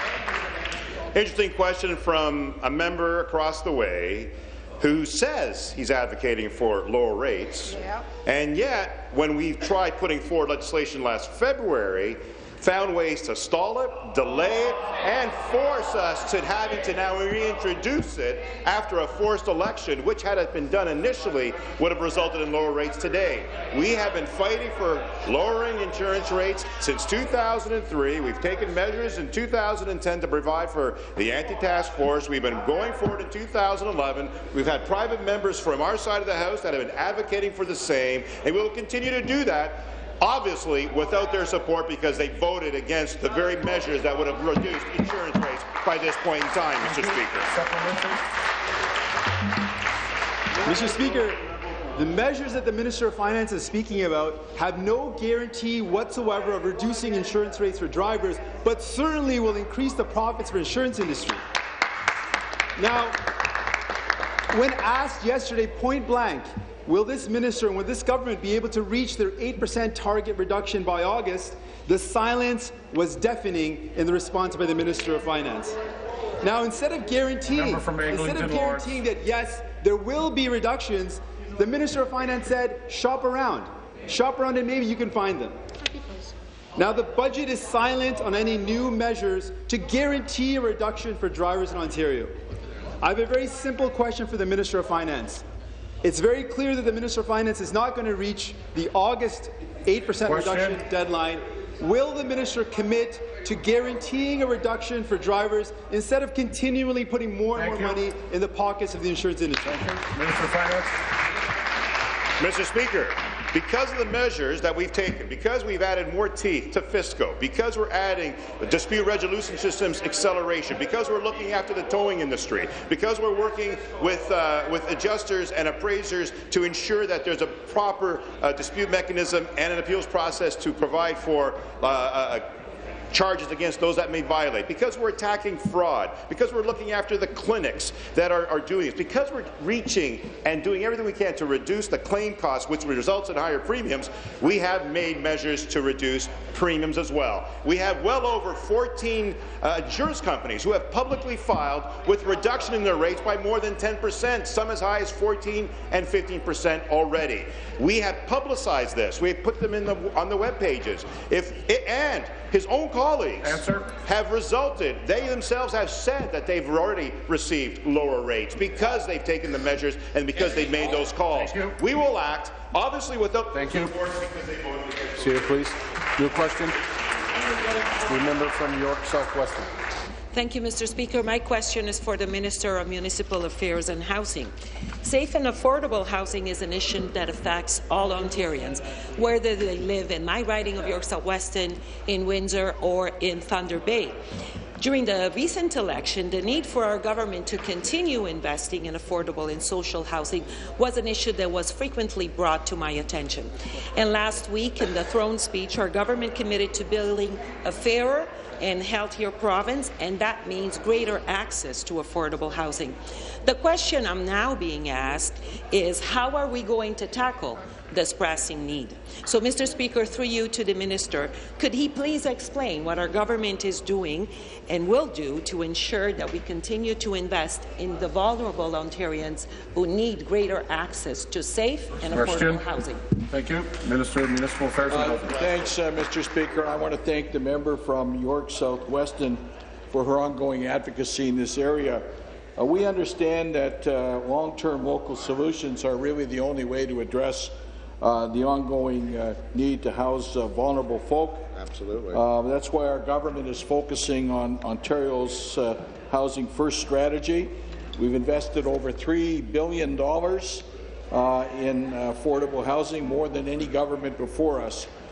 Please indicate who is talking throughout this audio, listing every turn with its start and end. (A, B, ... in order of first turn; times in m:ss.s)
0:01.1-0:47.5 A
0:46.8-0:48.2 B
0:50.6-0:51.4 C
0:51.9-1:01.4 C
1:02.8-1:03.2 C
1:04.5-1:15.8 C
1:16.4-1:25.6 C
1:17.5-1:18.9 B
1:26.8-1:32.3 C
1:33.0-1:35.4 C
1:36.0-1:49.9 C
1:40.2-1:40.8 B
1:47.5-1:48.0 B
1:49.6-1:51.0 B
1:52.4-2:12.5 A
2:13.1-2:55.1 A
2:43.4-2:44.0 B
2:51.3-2:51.8 B
2:53.5-2:53.9 B
2:55.2-2:56.8 B
2:57.9-2:59.7 B
3:00.3-3:14.2 D
3:14.8-3:53.0 D
3:52.1-3:52.6 B
3:53.3-3:55.3 B
3:54.9-4:11.5 E
4:12.0-4:24.9 E